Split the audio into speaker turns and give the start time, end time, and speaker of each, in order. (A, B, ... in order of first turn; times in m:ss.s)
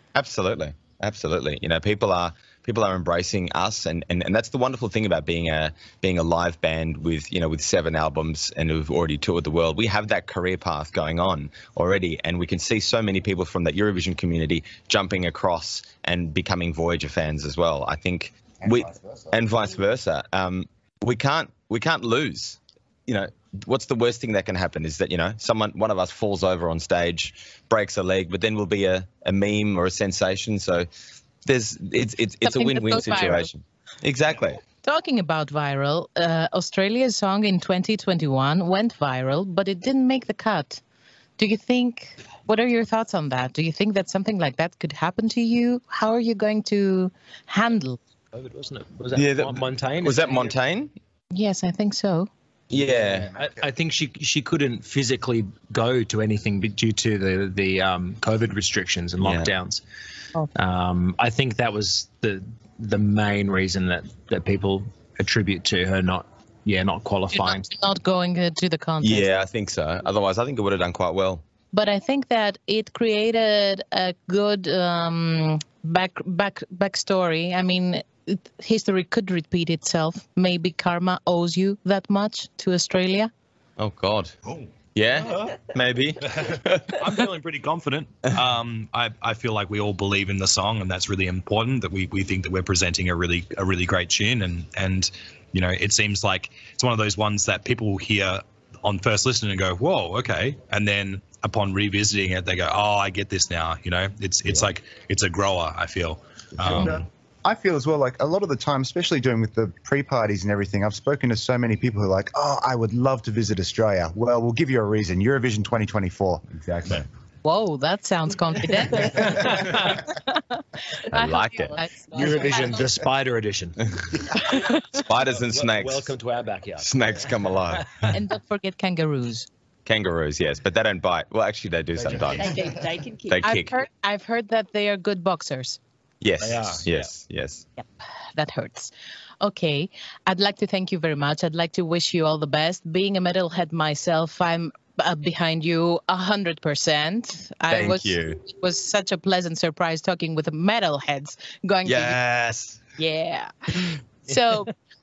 0:00.1-0:30.9 A
0:18.6-0:19.4 B
0:31.4-0:34.6 A
0:32.4-0:33.5 C
0:34.8-0:40.8 C
0:41.4-0:48.0 C
0:48.3-0:50.5 D
0:49.1-0:50.9 A
0:51.3-0:52.3 C
0:52.7-0:53.3 A
0:53.2-0:59.8 D
0:59.2-0:59.5 A
1:00.5-1:07.7 D
1:07.3-1:09.3 C
1:09.0-1:11.4 A
1:11.7-1:23.3 C
1:23.8-1:24.3 A
1:24.9-1:27.1 A
1:25.2-1:25.6 E
1:26.4-1:47.0 E
1:46.7-1:56.4 B
1:56.5-1:57.0 A
1:57.4-2:00.6 C
1:59.4-1:59.7 D
2:01.1-2:01.8 A
2:01.1-2:02.8 F
2:01.2-2:01.9 C
2:02.1-2:04.3 D
2:04.5-2:04.8 C
2:04.9-2:06.1 A
2:05.3-2:07.8 D
2:06.8-2:07.8 A
2:08.0-2:09.5 C
2:09.8-2:12.6 A
2:12.3-2:13.5 F
2:13.3-2:13.7 A
2:13.4-2:15.8 C
2:16.2-2:17.6 A
2:16.4-2:16.9 D
2:18.3-2:32.2 C
2:27.7-2:28.4 A
2:31.8-2:32.8 A
2:33.0-2:34.7 C